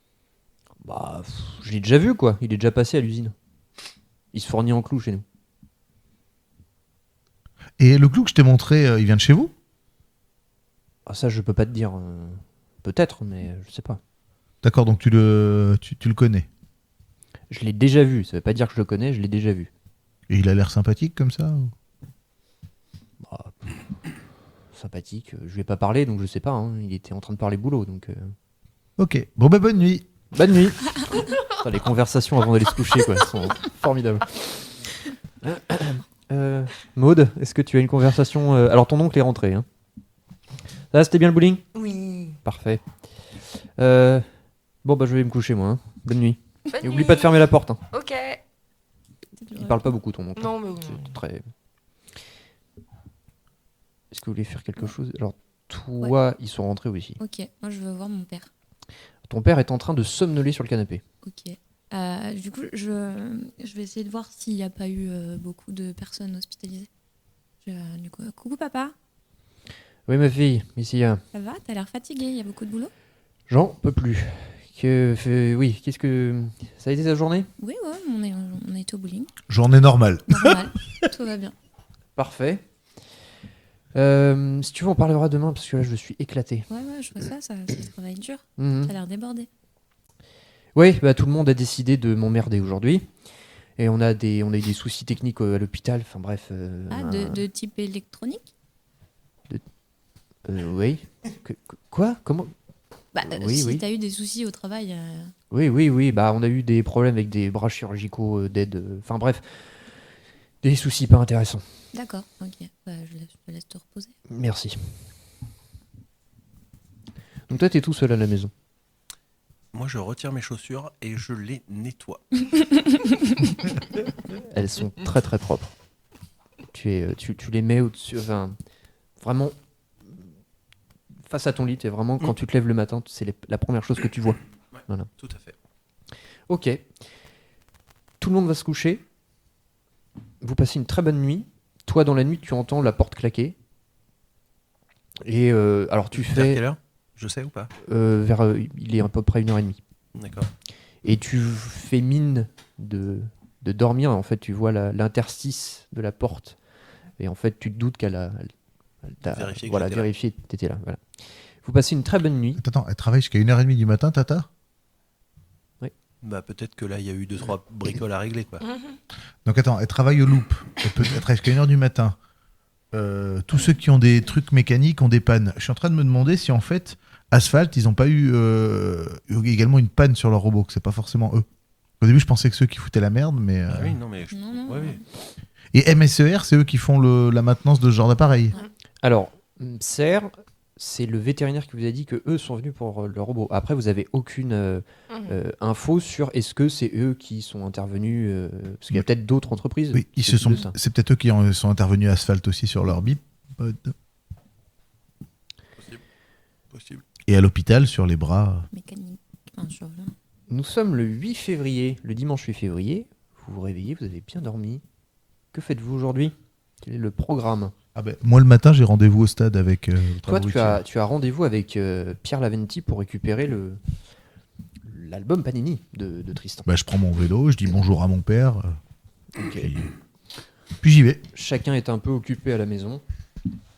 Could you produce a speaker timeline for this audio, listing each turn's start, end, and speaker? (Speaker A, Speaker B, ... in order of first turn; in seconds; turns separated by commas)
Speaker A: 0.8-3.3, Speaker A: 4.3-5.2, Speaker B: 7.8-9.5, Speaker A: 11.1-14.0, Speaker B: 14.6-16.5, Speaker A: 17.5-19.7, Speaker B: 20.3-21.7, Speaker A: 23.2-23.6, Speaker A: 24.7-28.3, Speaker B: 29.0-30.1, Speaker A: 30.3-34.7, Speaker A: 35.4-39.6, Speaker A: 40.9-41.6, Speaker C: 41.7-42.4, Speaker A: 42.4-42.8, Speaker A: 43.8-44.2, Speaker A: 44.8-47.8, Speaker C: 46.7-48.4, Speaker D: 49.4-49.9, Speaker A: 49.5-51.5, Speaker C: 50.4-51.1, Speaker A: 54.1-57.2, Speaker D: 57.2-58.5, Speaker A: 59.3-61.0, Speaker D: 61.2-66.9, Speaker D: 67.6-68.9, Speaker A: 70.1-71.2, Speaker D: 71.3-72.9, Speaker A: 73.5-77.5, Speaker D: 77.6-79.3, Speaker B: 79.5-80.7, Speaker D: 80.3-81.5, Speaker A: 82.2-82.6, Speaker A: 83.9-86.7, Speaker D: 86.7-89.5, Speaker A: 88.6-88.9, Speaker A: 90.7-93.1, Speaker A: 93.8-97.4, Speaker D: 96.9-98.5, Speaker A: 100.5-102.5, Speaker D: 103.1-105.3, Speaker A: 103.2-103.8, Speaker A: 105.5-109.8, Speaker A: 110.6-111.7, Speaker D: 111.9-114.1, Speaker A: 114.3-114.9, Speaker A: 117.5-118.5, Speaker E: 119.7-122.2, Speaker D: 122.9-123.5, Speaker A: 124.5-125.7, Speaker A: 126.7-128.6, Speaker A: 129.2-129.6, Speaker A: 131.3-135.1, Speaker E: 135.2-135.5, Speaker A: 136.5-136.9, Speaker A: 138.2-139.0, Speaker A: 140.4-143.5, Speaker A: 145.2-146.6, Speaker E: 146.1-147.7, Speaker A: 147.8-149.8, Speaker E: 150.1-150.5, Speaker A: 151.0-156.6, Speaker A: 157.2-158.5, Speaker A: 159.0-162.6, Speaker E: 159.3-160.1, Speaker B: 162.6-164.5, Speaker E: 166.2-168.7, Speaker B: 169.4-172.2, Speaker B: 172.9-181.4, Speaker B: 182.0-184.0, Speaker E: 183.7-185.0, Speaker D: 184.3-185.0, Speaker B: 185.7-188.6, Speaker A: 189.0-200.7, Speaker B: 199.9-203.9, Speaker E: 206.7-207.0, Speaker B: 207.3-208.7, Speaker D: 208.7-210.1, Speaker A: 210.5-214.8, Speaker A: 215.5-217.7, Speaker B: 217.9-220.8, Speaker A: 220.2-223.8, Speaker A: 224.8-226.7, Speaker B: 226.7-228.8, Speaker A: 229.3-229.7, Speaker B: 229.4-229.9, Speaker B: 230.8-231.2, Speaker A: 231.3-233.0